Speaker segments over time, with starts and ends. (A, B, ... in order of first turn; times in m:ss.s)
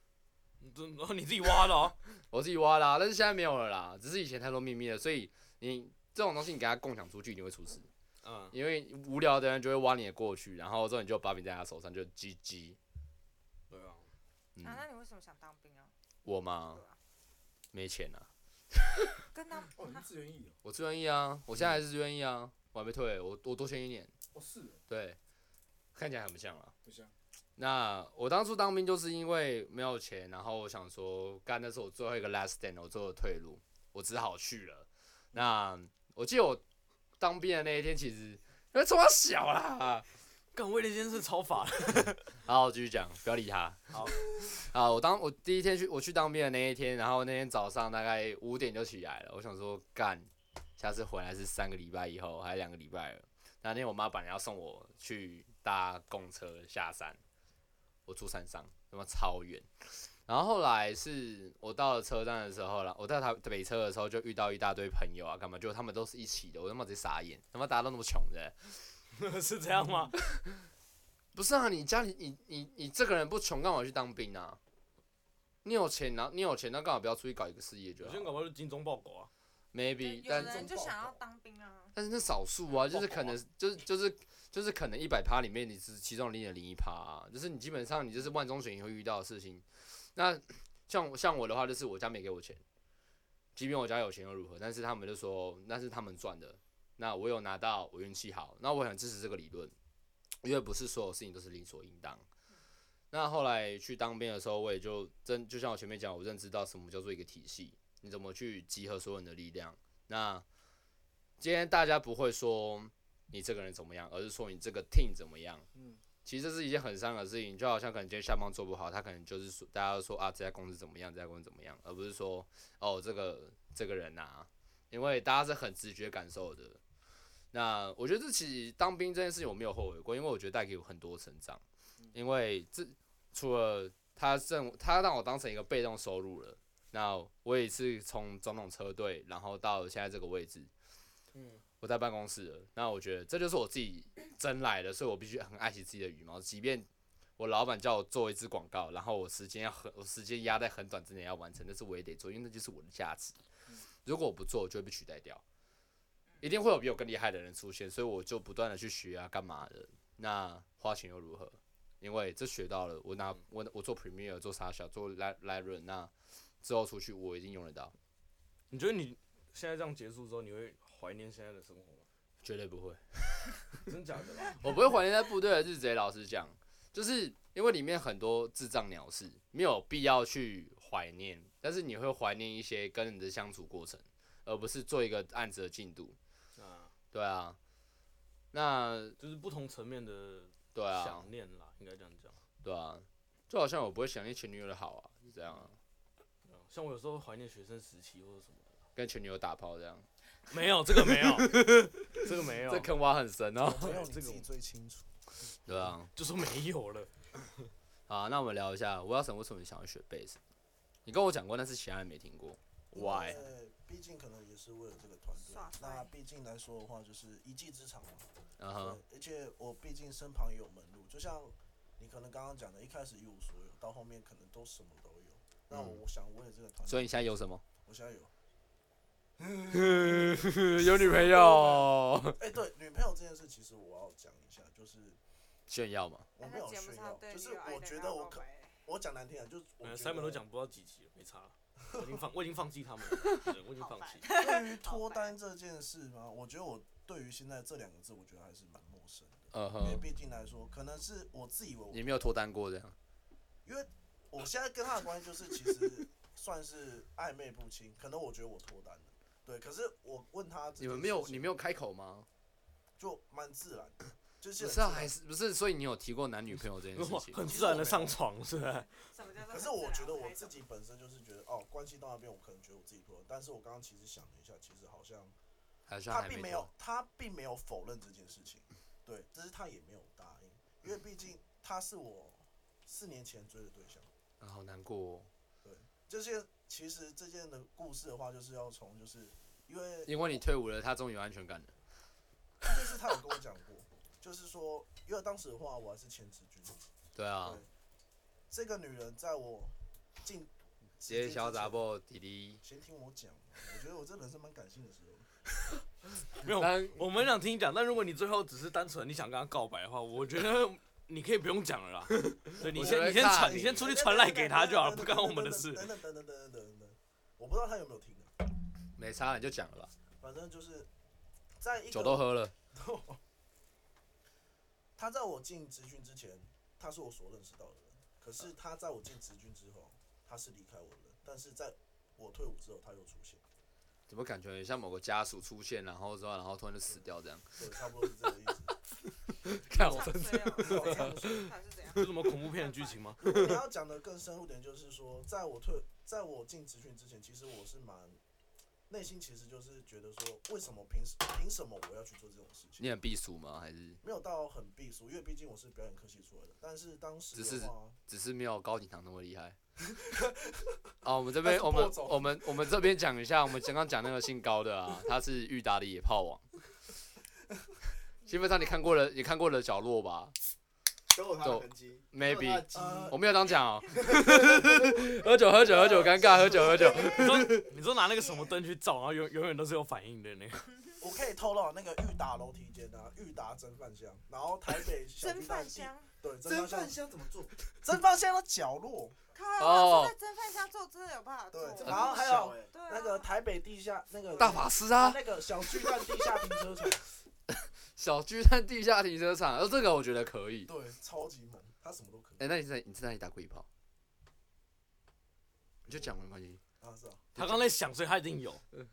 0:00.6-0:02.0 A
0:02.3-0:07.9 B
0:08.2-0:08.6 A
0:08.5-0:12.8 B
0:13.7-0:14.1 A
0:14.6-0:14.9 B
0:14.6-0:15.9 C
0:16.2-0:16.8 B
0:16.7-0:17.0 C
0:17.7-0:19.1 B
0:19.3-0:20.1 C
0:19.8-0:20.6 D
0:20.6-0:24.1 B
0:24.3-0:24.8 D
0:24.9-0:25.2 B
0:26.0-0:26.7 B
0:26.8-0:27.1 D
0:27.6-0:36.6 B
0:37.2-0:40.0 B
0:40.5-0:42.4 A
0:42.4-0:57.2 B
0:58.1-1:08.9 B
1:09.2-1:10.2 A
1:11.3-1:14.6 B
1:15.6-1:18.3 B
1:18.0-1:19.3 A
1:19.7-1:20.7 B
1:20.0-1:22.0 C
1:20.2-1:21.2 E
1:22.0-1:32.6 B
1:22.9-1:23.4 A
1:33.6-1:39.7 B
1:40.4-1:42.2 B
1:43.1-1:50.4 B
1:51.4-1:55.7 B
1:55.7-1:56.0 D
1:56.2-2:06.8 B
2:07.5-2:20.7 B
2:21.3-2:21.6 A
2:21.8-2:26.9 B
2:27.4-2:33.4 B
2:34.0-2:35.4 B
2:36.4-2:47.9 B
2:48.7-2:52.1 A
2:52.4-2:53.8 B
2:53.9-2:54.7 A
2:54.6-3:06.2 B
3:06.6-3:06.9 A
3:07.1-3:07.6 B
3:08.5-3:09.2 B
3:09.2-3:12.4 A
3:10.8-3:11.3 B
3:12.6-3:15.8 B
3:16.4-3:18.8 A
3:19.0-3:20.1 B
3:20.5-3:22.9 A
3:21.1-3:24.0 B
3:23.7-3:25.1 E
3:23.8-3:24.5 A
3:25.7-3:26.1 B
3:26.2-3:27.7 A
3:28.1-3:30.4 B
3:31.1-3:33.5 B
3:32.9-3:47.1 E
3:35.4-3:36.1 C
3:38.6-3:39.0 B
3:45.7-3:46.0 B
3:46.8-3:47.6 B
3:47.8-3:48.3 E
3:49.4-3:55.2 E
3:49.7-3:52.4 B
3:55.7-3:56.3 B
3:56.4-4:00.4 E
3:56.4-3:58.8 C
3:59.8-4:04.3 A
4:01.9-4:02.2 E
4:03.4-4:05.4 C
4:04.3-4:12.1 E
4:09.5-4:10.1 B
4:11.9-4:13.0 B
4:13.6-4:21.5 E
4:20.8-4:22.3 B
4:23.0-4:25.1 E
4:24.6-4:27.4 B
4:26.9-4:28.9 A
4:27.4-4:28.2 E
4:29.0-4:30.6 C
4:29.5-4:35.4 E
4:35.9-4:36.7 B
4:36.1-4:44.1 E
4:44.4-4:45.3 B
4:45.6-4:50.4 E
4:50.1-4:51.7 B
4:52.6-4:56.8 E
4:57.2-4:57.6 B
4:58.5-5:01.8 E
5:01.1-5:02.6 B
5:02.6-5:05.3 E
5:06.4-5:15.9 A
5:06.6-5:07.0 B
5:12.6-5:18.4 E
5:12.6-5:13.9 B
5:19.0-5:19.9 B
5:20.2-5:20.9 E
5:21.6-5:23.2 E
5:21.9-5:22.5 B
5:25.0-5:33.4 E
5:34.1-5:37.8 B
5:37.6-5:38.7 E
5:39.3-5:41.5 B
5:39.7-5:43.0 C
5:40.6-5:41.5 E
5:42.0-5:43.6 A
5:43.2-5:48.2 E
5:48.9-5:52.9 E
5:52.8-5:54.0 B
5:54.0-5:58.0 E
5:57.3-5:59.6 B
5:59.9-6:00.8 E
6:01.0-6:06.4 B
6:01.4-6:02.6 E
6:08.3-6:10.4 B
6:08.3-6:08.6 C
6:11.1-6:13.2 D
6:11.4-6:17.7 B
6:12.7-6:13.2 E
6:14.0-6:15.1 D
6:15.9-6:17.2 D
6:17.1-6:20.7 A
6:21.0-6:27.0 E
6:25.2-6:26.1 C
6:26.4-6:27.5 D
6:27.7-6:29.2 E
6:29.3-6:33.3 C
6:29.6-6:30.1 B
6:31.5-6:37.0 E
6:31.8-6:32.8 D
6:34.4-6:35.2 B
6:38.0-6:40.7 B
6:40.7-6:42.5 E
6:42.4-6:43.7 B
6:45.9-6:46.6 B
6:46.8-6:47.3 E
6:47.4-6:48.6 A
6:47.4-6:47.6 B